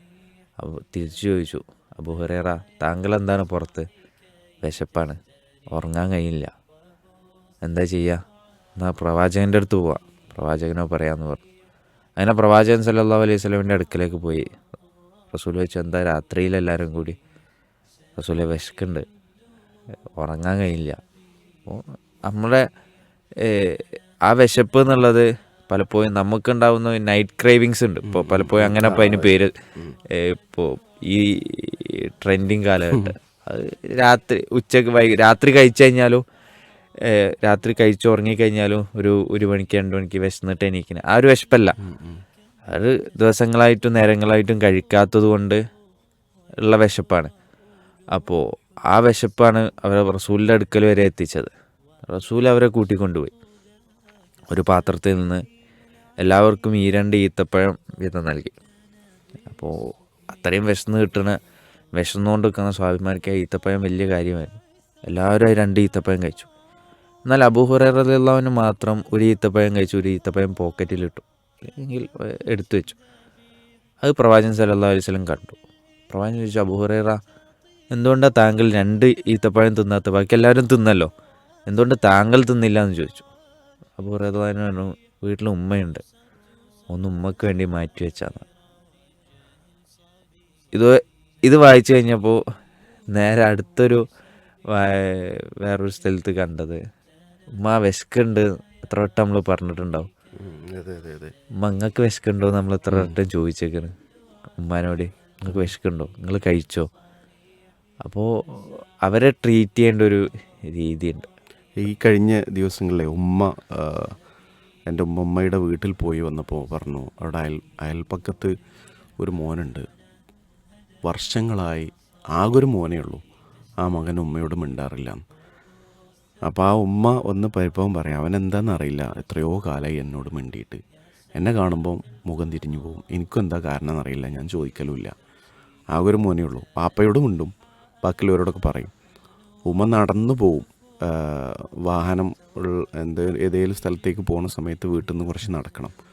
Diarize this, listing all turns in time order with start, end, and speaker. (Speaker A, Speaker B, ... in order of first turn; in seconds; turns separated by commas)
Speaker A: 0.6-3.9, Speaker A: 4.6-5.2, Speaker A: 5.7-6.5, Speaker A: 7.6-8.2, Speaker A: 8.8-11.4, Speaker A: 12.2-14.4, Speaker A: 15.3-17.2, Speaker A: 18.2-19.1, Speaker A: 20.2-21.0, Speaker A: 21.7-22.6, Speaker A: 23.4-29.5, Speaker B: 28.1-29.9, Speaker A: 30.1-36.2, Speaker A: 37.0-41.8, Speaker B: 41.8-42.2, Speaker A: 42.7-45.6, Speaker A: 46.6-47.3, Speaker A: 48.2-51.5, Speaker A: 52.1-53.3, Speaker A: 54.5-55.4, Speaker A: 56.2-58.6, Speaker A: 59.5-59.7, Speaker A: 60.3-61.4, Speaker A: 62.0-66.5, Speaker A: 67.3-73.0, Speaker A: 74.0-75.6, Speaker A: 76.1-77.2, Speaker A: 77.9-81.1, Speaker A: 81.7-83.3, Speaker A: 84.0-86.0, Speaker A: 86.9-88.5, Speaker A: 90.7-92.4, Speaker A: 93.1-94.0, Speaker A: 94.7-96.8, Speaker A: 97.6-100.1, Speaker B: 100.4-101.3, Speaker A: 101.6-103.9, Speaker A: 104.6-106.9, Speaker A: 108.0-111.3, Speaker B: 111.8-114.2, Speaker B: 114.9-118.5, Speaker B: 119.2-119.9, Speaker B: 121.0-123.2, Speaker B: 123.8-125.2, Speaker B: 126.5-130.8, Speaker B: 131.4-135.1, Speaker B: 135.9-137.5, Speaker B: 138.0-138.9, Speaker B: 139.7-145.9